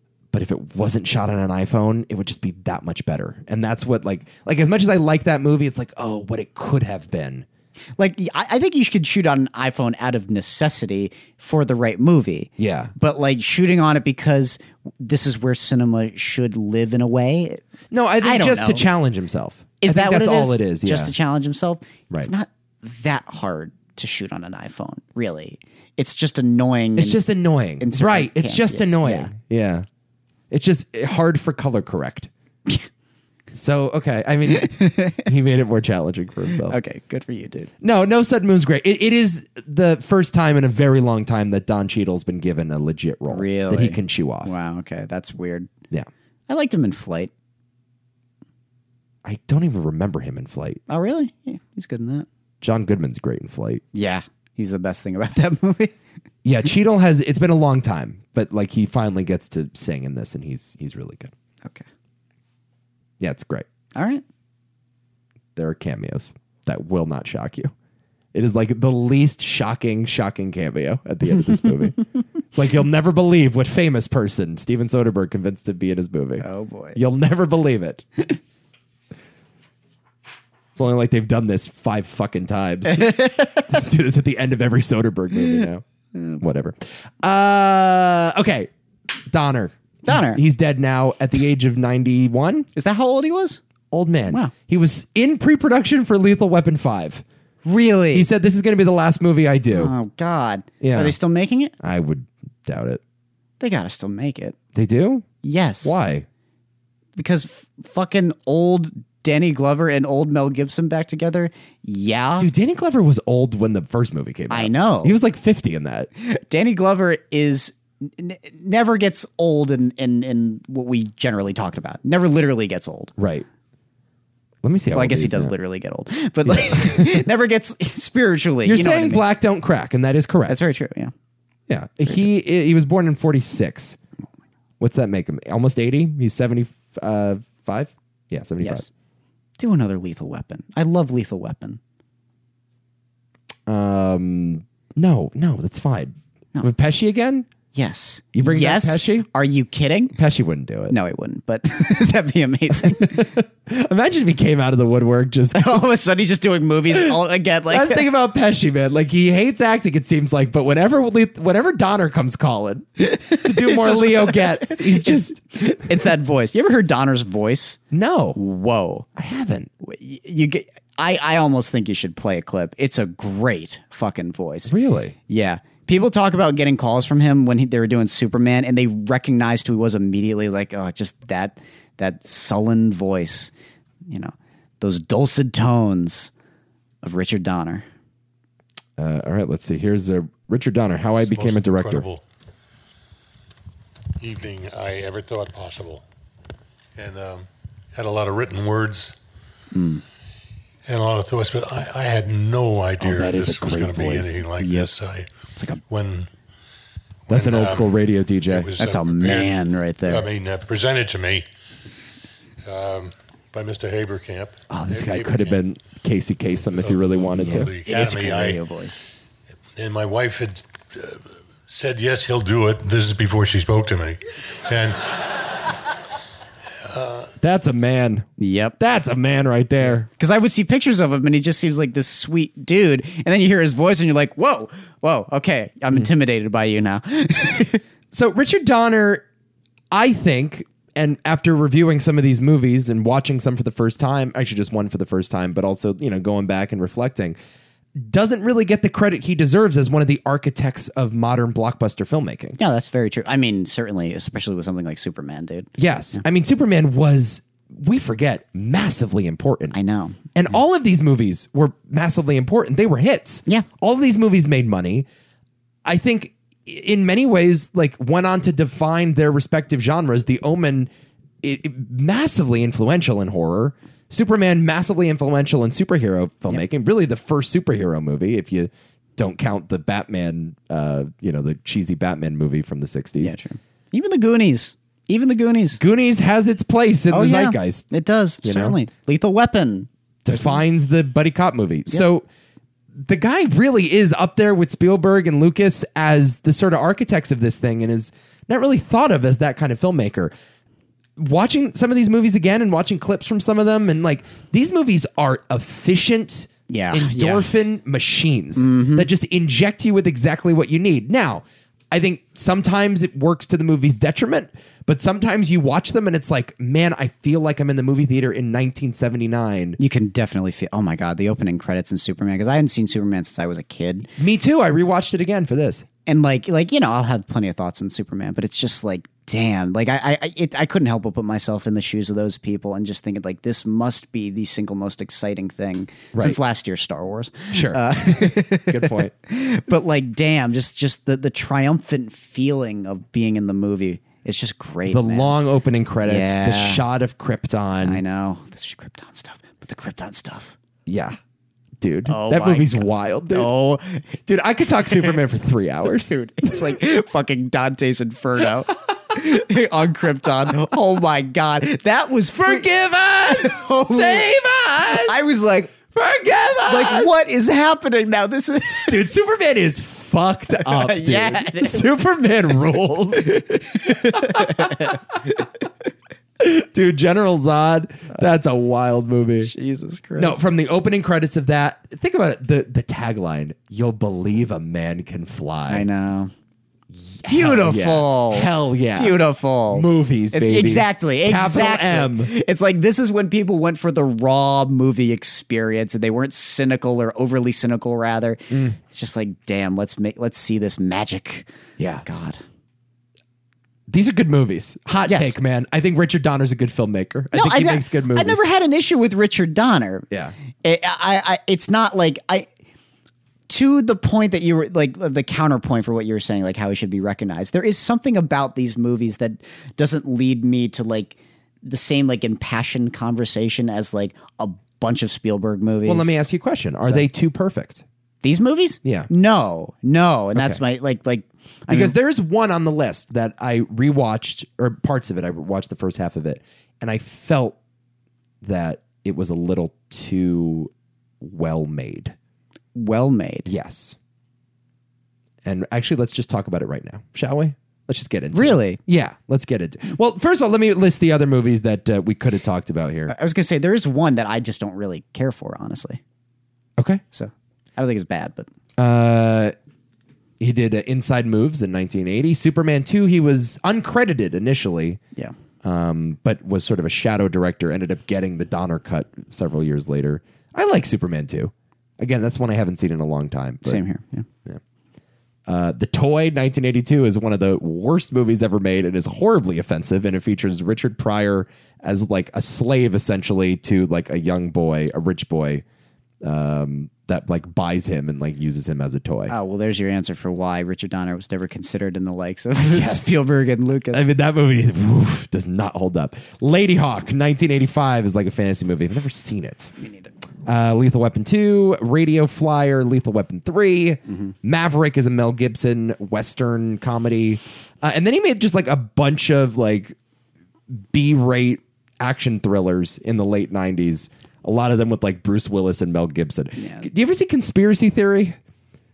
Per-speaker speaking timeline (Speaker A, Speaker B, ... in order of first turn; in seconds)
Speaker A: 0.3-7.5, 12.6-12.9, 17.9-21.1, 27.0-29.9, 30.5-32.3, 33.5-36.8, 37.8-44.5, 49.2-50.8, 52.6-53.8, 56.4-61.3, 63.2-63.6, 65.6-67.7, 68.3-76.5, 77.0-78.3, 80.8-85.8, 86.4-88.7, 89.3-92.7, 93.9-97.2, 98.1-99.9, 100.8-101.1, 101.8-103.0, 104.8-105.2, 105.8-106.2, 112.4-116.1, 123.2-123.5, 124.6-125.5, 126.5-127.2, 128.6-130.6, 131.7-134.0, 134.8-138.9, 143.7-147.5, 148.3-149.3, 150.1-150.9, 152.8-155.8, 157.7-165.4, 167.9-168.4, 169.2-169.7, 174.7-175.2, 189.0-192.1, 203.0-204.7, 207.3-208.7, 214.7-217.7, 227.4-230.1, 238.1-239.2, 239.9-247.4, 248.0-252.6, 255.8-259.8, 260.3-265.1, 265.9-270.9, 271.4-283.4, 285.8-287.9, 288.4-288.8, 290.2-292.2, 293.0-300.3, 301.2-319.8, 324.2-325.9, 336.1-336.4, 337.5-339.1, 344.9-348.0, 350.9-351.2, 351.8-353.5, 354.2-356.1, 362.4-365.2, 365.9-367.1, 368.9-375.2, 376.4-379.5, 380.2-385.9, 386.9-389.2, 389.7-392.3, 398.5-398.8, 401.8-402.0, 403.9-408.4, 425.9-427.8, 428.8-429.1, 430.4-430.6, 431.7-437.6, 438.4-442.1, 443.4-444.0, 445.4-453.1, 456.8-457.0, 458.8-459.5, 460.4-465.0, 465.6-473.8, 475.5-485.6, 486.2-489.3, 492.7-493.2, 493.9-499.7, 500.4-509.9, 510.7-518.4
Speaker B: 8.0-17.6, 18.2-18.9, 19.8-27.2, 27.8-29.3, 34.5-35.2, 36.6-37.7, 43.3-45.7, 46.5-47.3, 50.9-52.2, 53.9-56.0, 64.0-64.2, 76.4-77.0, 82.9-83.7, 90.0-90.4, 92.8-93.6, 97.6-98.3, 99.7-101.7, 103.6-104.6, 105.4-106.0, 107.2-112.5, 114.5-115.2, 116.2-123.1, 124.9-129.2, 130.5-131.1, 138.6-138.9, 139.6-141.8, 147.7-150.1, 150.9-153.3, 155.5-158.1, 163.0-167.8, 168.3-169.1, 169.8-174.7, 175.3-183.5, 184.1-186.3, 187.0-187.9, 199.7-200.0, 208.8-210.2, 217.5-219.1, 228.4-228.8, 230.1-237.8, 252.6-256.2, 259.7-260.2, 283.2-285.8, 287.1-290.6, 306.7-307.5, 308.6-309.1, 319.8-324.1, 326.1-345.4, 346.0-346.8, 347.8-350.6, 352.1-354.1, 354.9-355.1, 355.9-362.7, 363.2-364.3, 364.9-365.8, 366.6-369.1, 370.6-371.9, 373.8-375.0, 379.4-380.4, 385.7-386.3, 387.3-401.5, 402.0-402.4, 405.1-405.4, 407.3-410.1, 410.6-412.5, 413.5-426.1, 428.2-431.9, 442.8-443.5, 448.3-448.8, 453.1-456.0, 457.1-458.5, 473.6-474.3, 489.3-494.1, 499.8-500.1, 516.6-516.9
Speaker C: 191.1-192.2, 194.2-196.0, 197.0-199.2, 200.9-205.3, 205.9-206.3, 207.3-211.5, 212.6-215.6, 216.8-218.6, 219.8-225.7, 226.8-227.3